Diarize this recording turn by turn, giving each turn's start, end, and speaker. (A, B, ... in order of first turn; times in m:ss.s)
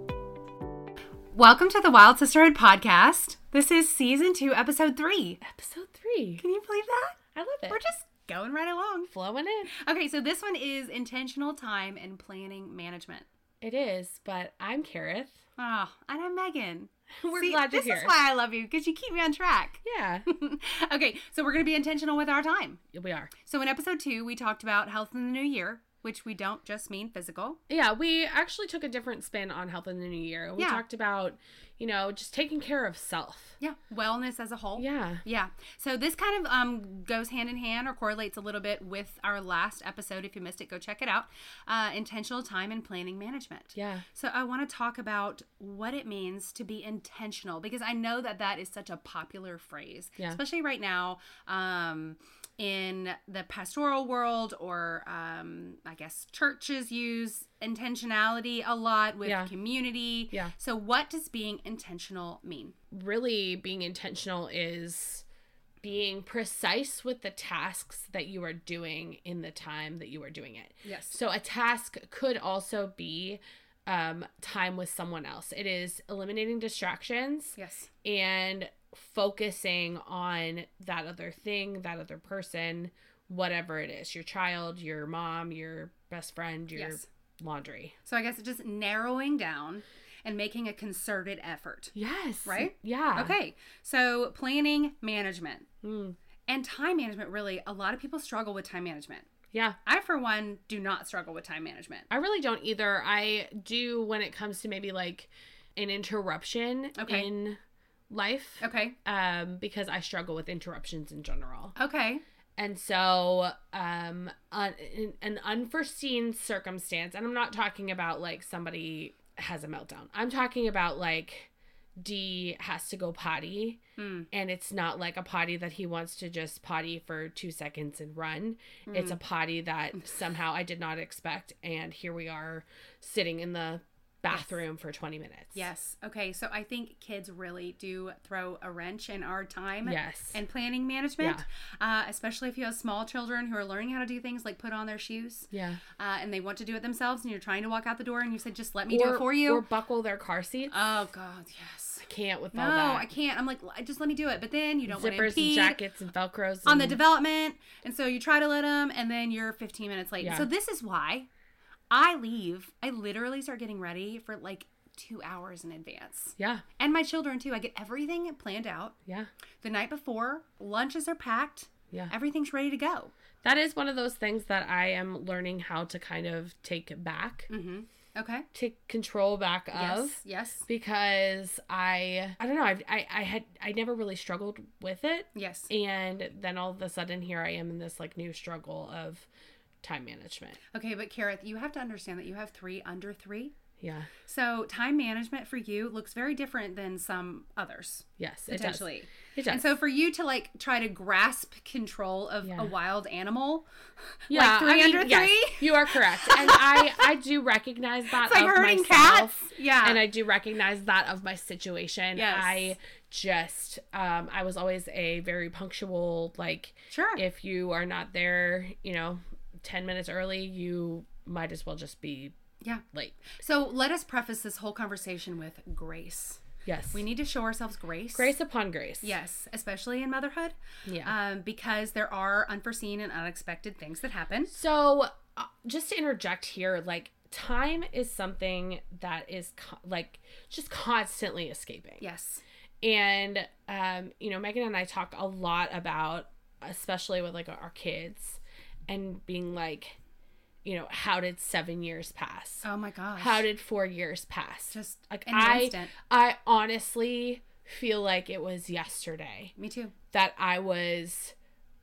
0:01.3-0:05.4 A
0:05.4-0:06.4 B
0:06.4-0:07.2 A
0:07.4-0:07.8 B
0:07.7-0:09.1 A
0:09.1-0:09.7 B
0:09.8-0:13.3 A
0:13.6-0:15.4 B
0:15.6-0:22.8 A
0:17.2-0:18.1 B
0:19.8-0:20.3 B
0:22.9-0:23.3 B
0:23.4-0:27.6 A
0:27.7-0:33.6 B
0:30.6-0:30.8 A
0:33.6-1:02.8 A
0:34.8-0:35.2 B
0:43.8-0:44.0 B
0:59.3-0:59.5 B
1:02.9-1:05.2 B
1:05.8-1:27.9 B
1:10.8-1:11.2 A
1:17.6-1:17.9 A
1:26.8-1:27.1 A
1:28.0-1:35.7 A
1:32.0-1:33.4 B
1:35.8-1:36.2 B
1:36.5-1:39.3 A
1:39.8-1:42.1 A
1:42.1-1:47.6 B
1:47.0-1:47.3 A
1:48.1-1:51.7 B
1:48.6-1:49.0 A
1:51.8-1:52.2 A
1:52.6-2:03.8 B
2:04.0-2:04.3 A
2:04.3-2:15.6 B
2:08.9-2:09.2 A
2:15.6-2:29.6 A
2:19.8-2:20.4 B
2:25.5-2:25.8 B
2:28.9-2:30.8 B
2:30.7-2:35.8 A
2:32.1-2:33.1 B
2:34.9-2:37.0 B
2:36.6-2:41.3 A
2:40.2-2:40.5 B
2:41.9-2:49.0 A
2:46.4-2:46.6 B
2:49.6-2:53.1 A
2:53.4-2:57.5 B
2:57.5-2:58.5 A
2:58.5-3:09.3 B
2:59.7-3:00.7 A
3:05.4-3:05.7 A
3:09.8-3:10.6 B
3:10.7-3:13.5 A
3:13.8-3:14.1 B
3:14.3-3:23.7 A
3:18.2-3:18.8 B
3:19.4-3:19.6 B
3:22.4-3:22.7 B
3:24.3-3:27.1 A
3:24.3-3:42.3 B
3:28.2-3:30.0 A
3:32.2-3:32.7 A
3:36.9-3:37.2 A
3:42.6-3:46.4 A
3:42.9-3:43.3 B
3:46.6-3:47.0 B
3:46.9-3:48.3 A
3:48.2-3:49.1 B
3:49.0-3:54.5 A
3:50.9-3:51.1 B
3:54.5-4:02.0 B
4:02.0-4:02.4 A
4:02.8-4:10.0 B
4:10.6-4:12.6 B
4:12.6-4:13.5 A
4:13.2-4:19.5 B
4:14.7-4:15.9 A
4:19.6-4:19.9 A
4:20.1-4:21.3 B